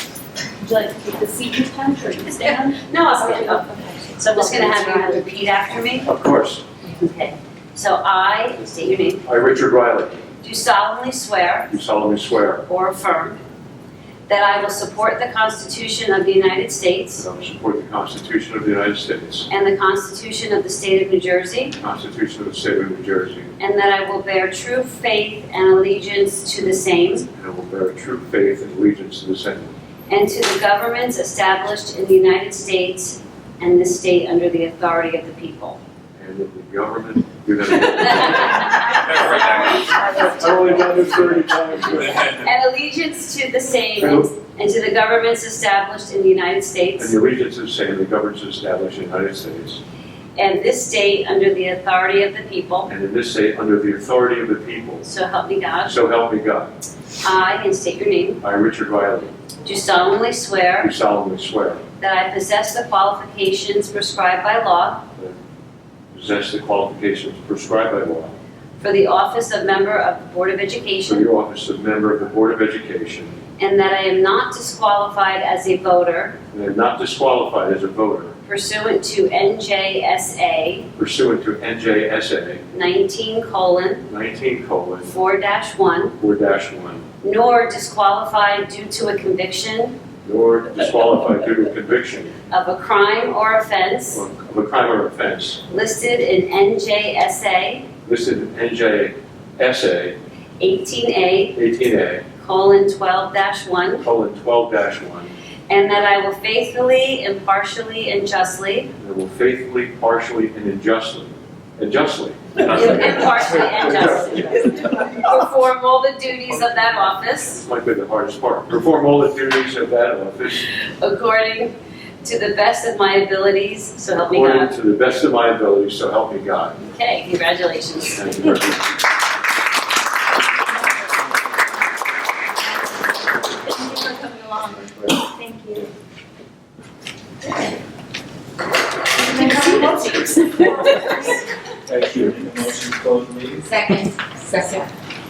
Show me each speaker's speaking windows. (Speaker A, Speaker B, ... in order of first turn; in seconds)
Speaker A: 0.6-5.2, 39.2-41.0, 133.8-134.8, 135.3-135.8, 139.2-141.1
Speaker B: 2.8-3.6, 4.2-6.1, 6.8-9.2, 10.4-11.7, 12.7-13.4, 14.3-17.2, 19.5-21.7, 23.6-27.3, 30.1-35.8, 37.9-41.2, 41.9-47.1, 50.4-52.9, 55.0-56.0, 57.2-58.4, 59.6-60.9, 62.0-65.0, 68.8-71.3, 73.6-76.4, 78.5-80.9, 82.7-84.0, 85.1-86.2, 87.2-89.9, 92.5-94.2, 95.7-97.9, 100.6-101.5, 102.4-104.0, 105.7-108.9, 112.6-117.6, 120.8-121.7, 122.2-124.7, 126.8-128.6
Speaker C: 6.0-6.6, 9.2-10.2, 11.7-12.6, 17.1-19.5, 21.8-23.5, 27.3-29.7, 36.2-42.4, 44.0-44.3, 47.0-49.8, 52.9-55.0, 55.9-56.7, 58.4-59.3, 60.8-61.8, 66.1-68.3, 71.0-73.4, 76.5-78.3, 81.0-82.6, 84.1-85.1, 86.2-87.0, 90.2-92.3, 94.1-95.6, 98.0-100.2, 101.5-102.2, 104.0-105.3, 109.0-114.4, 117.5-120.7, 124.3-126.8, 128.1-128.8, 141.9-142.2
Speaker D: 39.1-39.9, 141.9-143.7
Speaker E: 135.4-135.7, 139.3-140.1, 143.7-144.8